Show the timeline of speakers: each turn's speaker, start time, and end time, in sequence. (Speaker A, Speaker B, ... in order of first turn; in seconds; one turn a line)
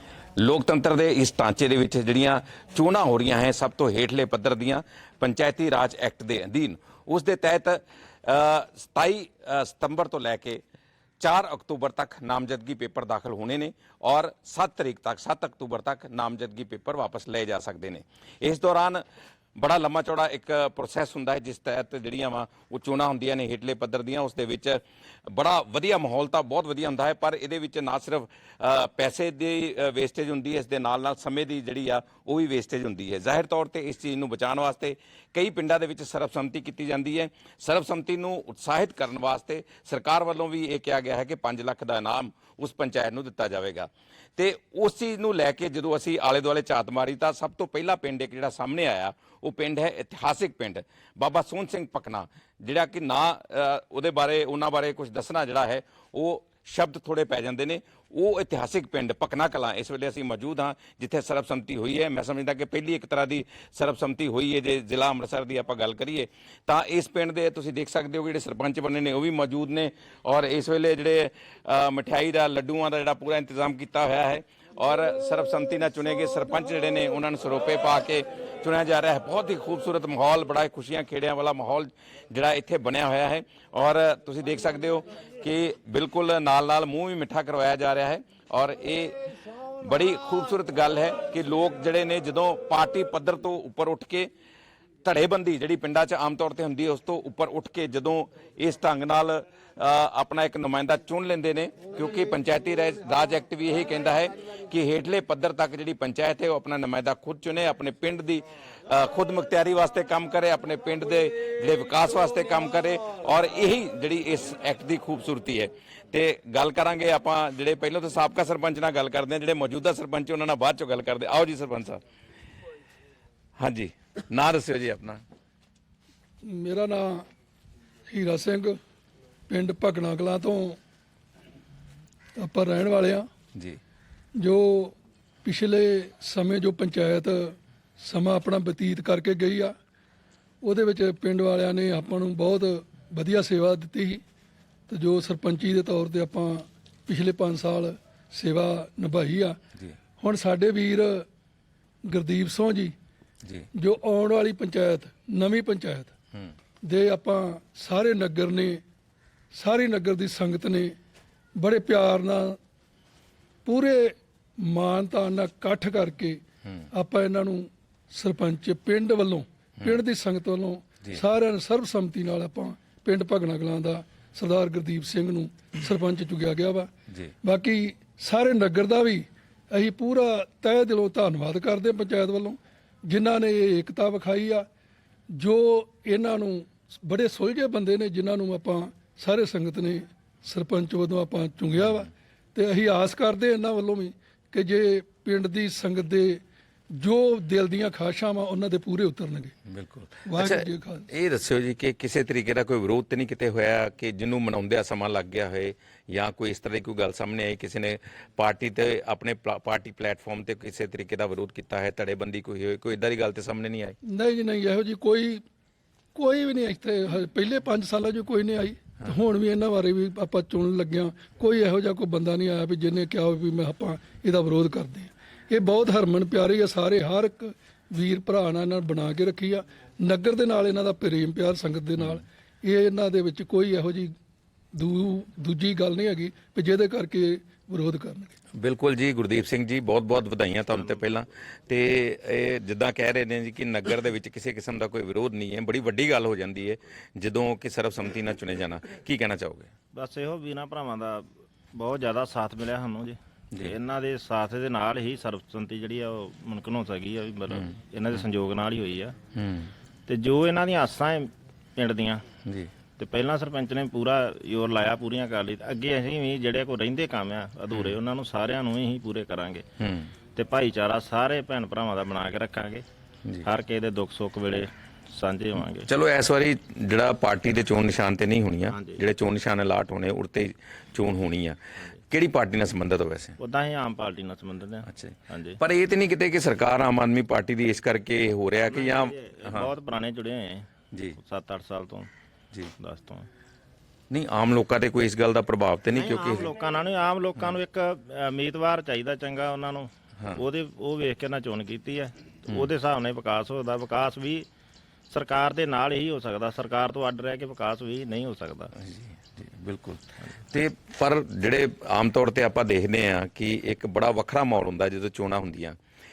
Speaker A: 0.4-10.6
Speaker A: 11.2-19.0
Speaker A: 19.6-89.2
Speaker A: 89.8-94.3
Speaker A: 95.0-122.0
Speaker A: 123.6-125.2
Speaker B: 126.4-127.3
Speaker B: 128.1-128.8
Speaker B: 129.5-130.8
Speaker B: 132.3-133.3
Speaker B: 134.3-139.8
Speaker B: 140.6-144.2
Speaker B: 144.9-149.6
Speaker B: 150.2-151.3
Speaker B: 152.0-152.9
Speaker B: 153.7-156.1
Speaker B: 156.8-158.8
Speaker B: 159.5-160.9
Speaker B: 161.5-162.6
Speaker B: 163.6-176.9
Speaker B: 177.4-184.7
Speaker B: 185.3-196.4
Speaker B: 196.9-199.5
Speaker A: 199.7-214.0
Speaker B: 200.2-201.1
Speaker B: 214.0-215.4
Speaker B: 216.1-234.1
Speaker B: 234.7-238.3
Speaker A: 238.6-249.7
Speaker C: 249.9-259.1
Speaker A: 259.3-259.7
Speaker C: 260.1-262.2
Speaker A: 262.4-262.7
Speaker C: 263.0-269.6
Speaker A: 269.8-270.1
Speaker C: 270.4-272.8
Speaker C: 273.4-275.9
Speaker A: 275.9-283.4
Speaker C: 278.7-279.0
Speaker C: 283.4-285.6
Speaker A: 284.9-289.7
Speaker C: 288.7-290.7
Speaker A: 290.9-291.2
Speaker C: 291.2-292.1
Speaker C: 292.8-293.3
Speaker A: 294.1-296.5
Speaker C: 295.9-304.5
Speaker C: 305.1-308.7
Speaker A: 308.8-315.8